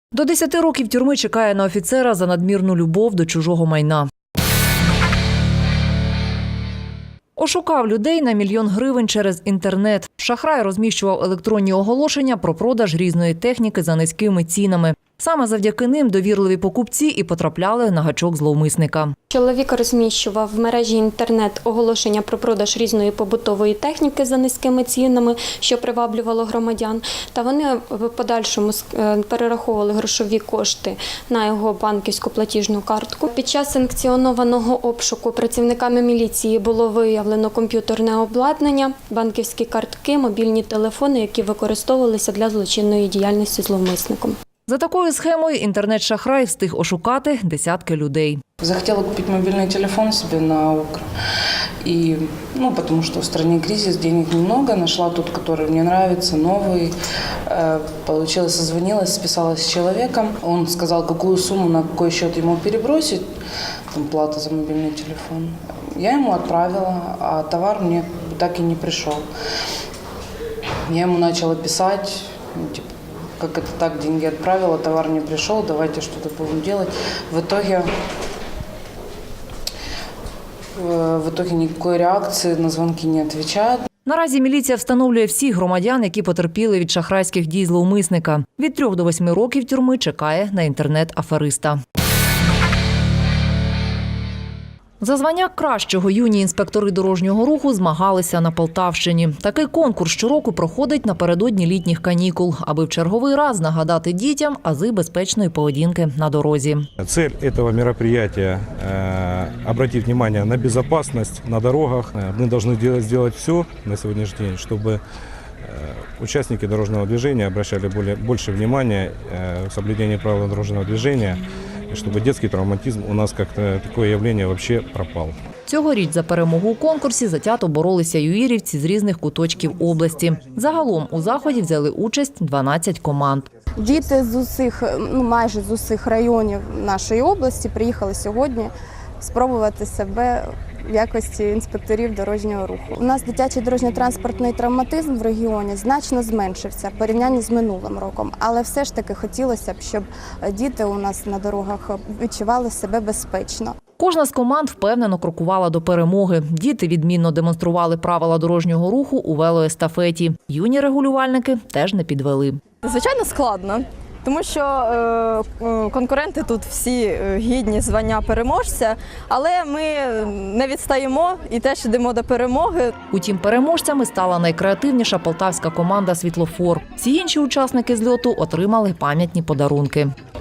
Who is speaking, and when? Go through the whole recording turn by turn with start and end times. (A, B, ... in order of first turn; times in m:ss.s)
0:00.1-0:04.1 A
0:07.4-0:19.1 A
0:19.3-0:44.3 B
0:44.7-0:48.4 A
0:48.6-0:51.0 C
0:51.8-0:56.9 C
0:57.5-1:03.2 C
1:03.9-1:09.2 C
1:10.9-1:17.9 C
1:20.8-1:23.8 C
1:24.0-1:31.8 A
1:35.0-1:46.9 A
1:47.0-1:55.0 D
1:55.6-2:05.3 D
2:05.7-2:13.4 A
2:13.8-2:33.8 E
2:34.0-2:42.6 A
2:42.8-2:52.9 F
2:53.1-3:00.1 A